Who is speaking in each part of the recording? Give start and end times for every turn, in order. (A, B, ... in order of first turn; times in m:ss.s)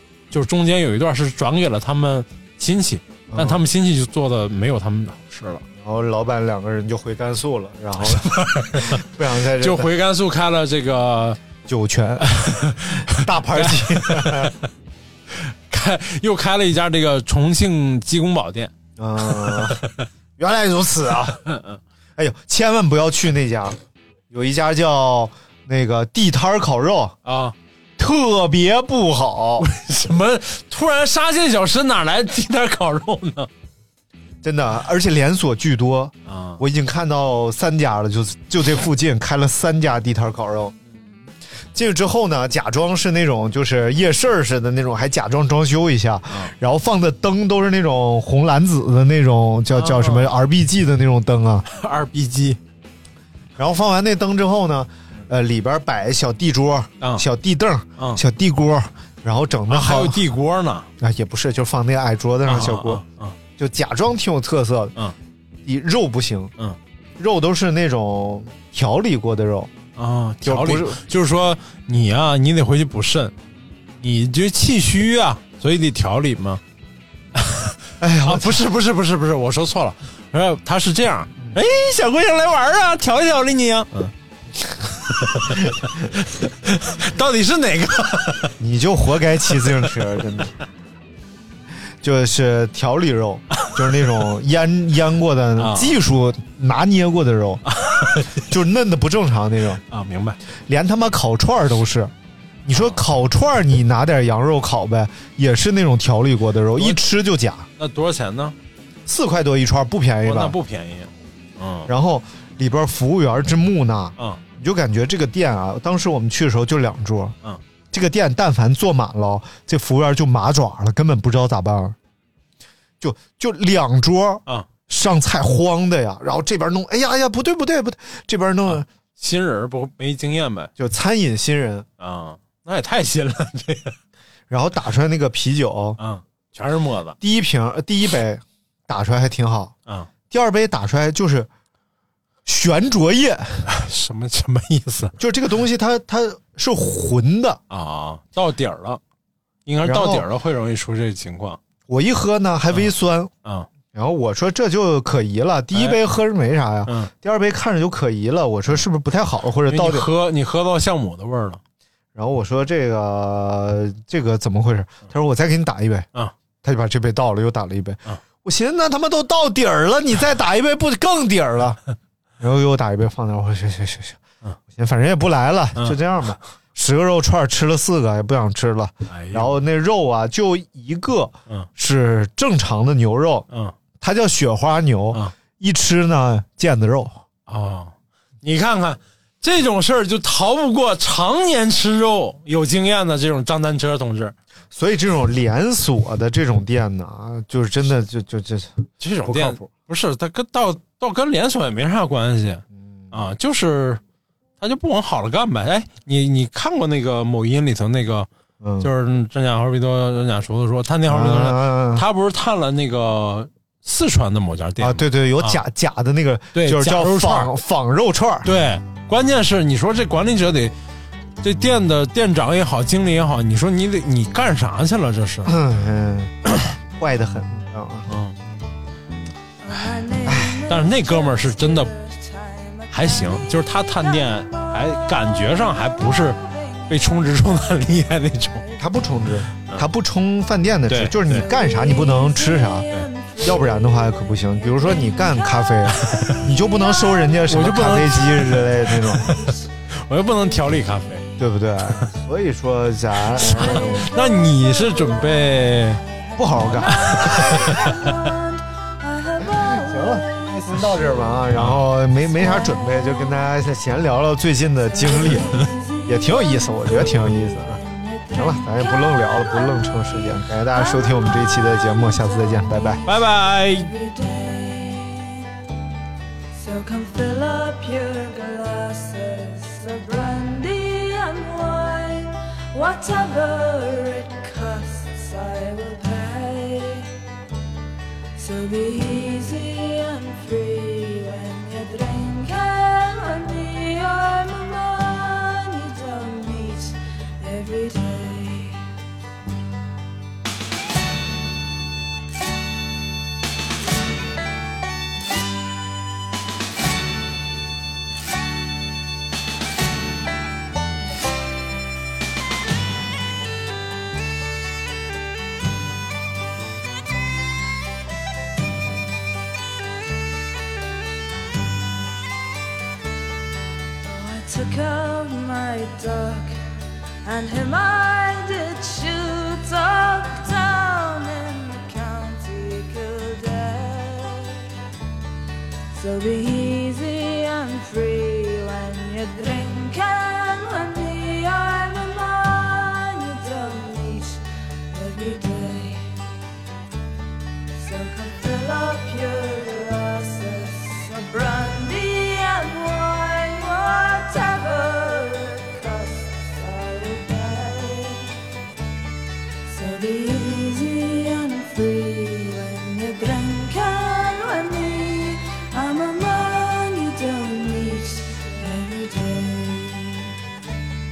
0:00.3-0:05.6 A
0:03.3-0:03.6 B
0:05.8-0:09.9 B
0:08.0-0:09.0 A
0:09.6-0:11.4 A
0:11.6-0:14.5 B
0:12.3-0:14.6 A
0:15.3-0:18.7 A
0:19.0-0:19.8 B
0:19.3-0:20.1 A
0:20.4-0:21.4 B
0:21.4-0:21.8 A
0:22.2-0:23.8 B
0:24.3-0:27.1 B
0:27.2-0:27.6 A
0:28.0-0:29.6 B
0:29.6-0:33.5 A
0:34.4-0:40.7 B
0:36.2-0:36.6 A
0:41.7-0:51.6 B
0:49.7-0:50.3 A
0:51.7-0:52.6 A
0:53.6-1:00.2 B
0:59.7-1:00.9 A
1:01.0-1:03.0 B
1:02.4-1:03.4 A
1:03.6-1:04.9 B
1:05.6-1:06.5 B
1:07.2-1:09.7 B
1:10.0-1:13.3 A
1:10.4-1:11.0 B
1:14.0-1:16.6 A
1:17.3-1:24.1 A
1:18.0-1:18.6 B
1:24.9-1:28.6 A
1:28.6-1:30.5 B
1:32.0-1:37.6 B
1:35.6-1:36.0 A
1:37.7-1:38.4 A
1:38.4-1:39.8 B
1:39.9-1:40.4 A
1:40.5-1:42.1 B
1:42.6-1:47.7 B
1:42.7-1:43.0 A
1:47.8-1:48.6 A
1:49.0-1:50.6 B
1:50.2-1:51.9 A
1:51.9-1:57.4 B
1:57.9-2:02.0 B
2:03.0-2:08.8 B
2:08.7-2:10.7 A
2:10.8-2:11.8 B
2:12.0-2:14.0 A
2:14.5-2:16.0 B
2:16.0-2:17.2 A
2:17.2-2:19.7 B
2:20.3-2:21.5 B
2:22.4-2:23.7 B
2:23.7-2:25.2 A
2:25.2-2:27.6 B
2:27.7-2:29.0 A
2:29.6-2:31.6 A
2:29.8-2:30.3 B
2:31.9-2:33.3 B
2:33.9-2:40.1 B
2:39.7-2:41.6 A
2:42.1-2:46.1 B
2:46.6-2:51.8 B
2:52.4-3:03.5 B
2:59.1-2:59.5 A
3:03.5-3:03.7 A
3:04.0-3:07.2 B
3:07.5-3:14.3 A
3:14.7-3:19.6 B
3:19.0-3:24.0 A
3:24.6-3:28.3 A
3:28.6-3:28.9 B
3:28.8-3:35.6 A
3:31.1-3:32.0 B
3:34.8-3:38.5 B
3:36.5-3:37.5 A
3:38.4-3:40.7 A
3:41.4-3:45.6 A
3:45.4-3:48.1 B
3:48.1-3:48.4 A
3:49.6-3:54.6 C
3:50.2-3:50.5 B
3:50.6-3:51.9 A
3:52.9-3:58.6 A
3:55.5-3:56.4 C
3:58.8-4:09.3 B
4:00.9-4:01.5 A
4:01.4-4:07.4 C
4:05.9-4:06.4 A
4:07.5-4:11.2 A
4:09.3-4:09.6 C
4:11.4-4:14.1 B
4:13.3-4:16.0 A
4:13.4-4:21.4 C
4:16.4-4:17.8 B
4:16.9-4:18.2 A
4:19.4-4:27.8 B
4:21.5-4:21.8 A
4:22.2-4:23.4 C
4:24.8-4:35.5 C
4:25.1-4:25.7 A
4:28.3-4:33.0 B
4:33.0-4:33.9 A
4:36.5-4:47.1 C
4:48.3-4:58.8 C
5:24.0-5:26.6 C
5:27.2-5:34.6 C
5:35.9-5:46.1 C
5:47.7-5:58.3 C
5:59.6-6:10.3 C